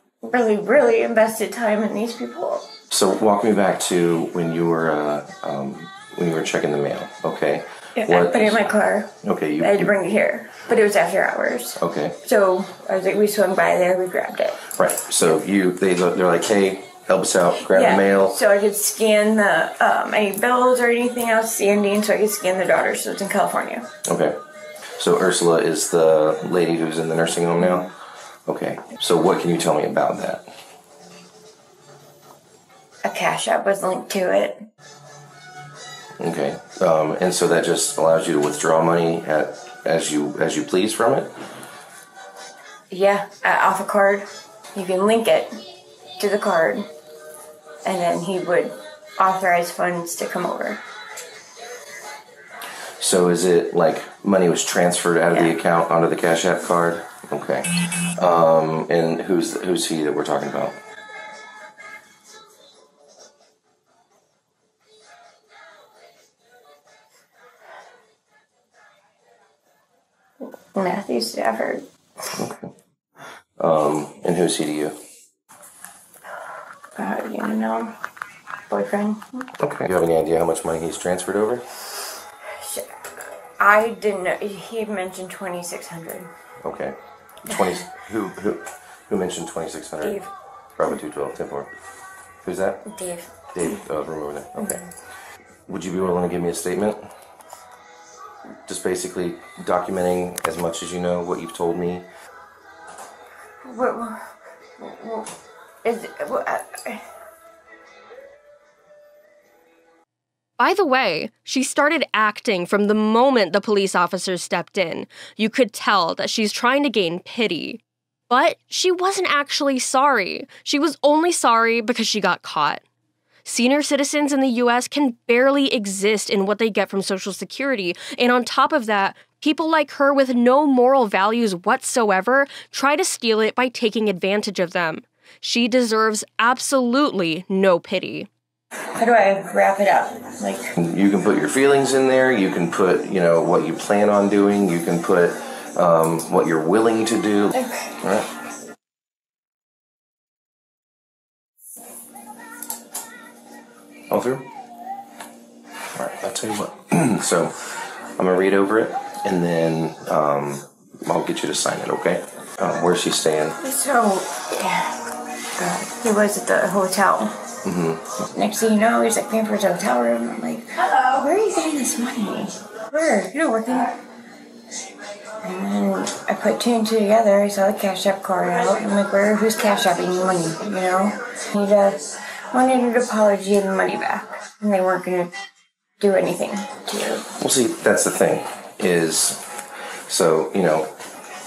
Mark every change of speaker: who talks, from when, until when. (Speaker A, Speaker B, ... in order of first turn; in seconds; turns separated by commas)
Speaker A: 0.2-2.7, Speaker B: 2.9-9.9, Speaker A: 8.0-14.6, Speaker B: 11.8-12.2, Speaker B: 14.8-18.4, Speaker A: 17.7-23.9, Speaker B: 24.1-24.4, Speaker B: 25.0-27.9, Speaker B: 28.5-30.5, Speaker A: 33.0-34.6, Speaker B: 36.2-41.3, Speaker A: 42.9-45.5, Speaker A: 46.2-46.9, Speaker A: 47.9-50.8, Speaker B: 53.0-60.8, Speaker A: 70.7-71.8, Speaker B: 72.3-72.7, Speaker B: 73.6-75.0, Speaker A: 77.0-78.0, Speaker A: 78.7-79.4, Speaker B: 79.6-81.6, Speaker A: 82.6-82.9, Speaker A: 83.6-86.3, Speaker B: 86.6-90.2, Speaker A: 90.0-90.3, Speaker B: 90.8-91.7, Speaker B: 92.4-92.8, Speaker A: 92.9-93.8, Speaker B: 93.5-94.8, Speaker B: 95.7-97.1, Speaker B: 98.7-102.1, Speaker A: 103.7-104.2, Speaker A: 104.8-105.3, Speaker A: 105.8-107.0, Speaker C: 110.6-122.8, Speaker C: 123.5-138.3, Speaker A: 139.0-140.8, Speaker B: 140.8-148.3, Speaker B: 154.1-154.4, Speaker B: 155.9-163.6, Speaker A: 163.6-165.0, Speaker A: 165.6-167.3, Speaker B: 167.6-168.3, Speaker A: 168.3-174.0, Speaker A: 175.4-185.3, Speaker A: 186.0-187.2, Speaker B: 187.4-189.4, Speaker B: 190.1-190.9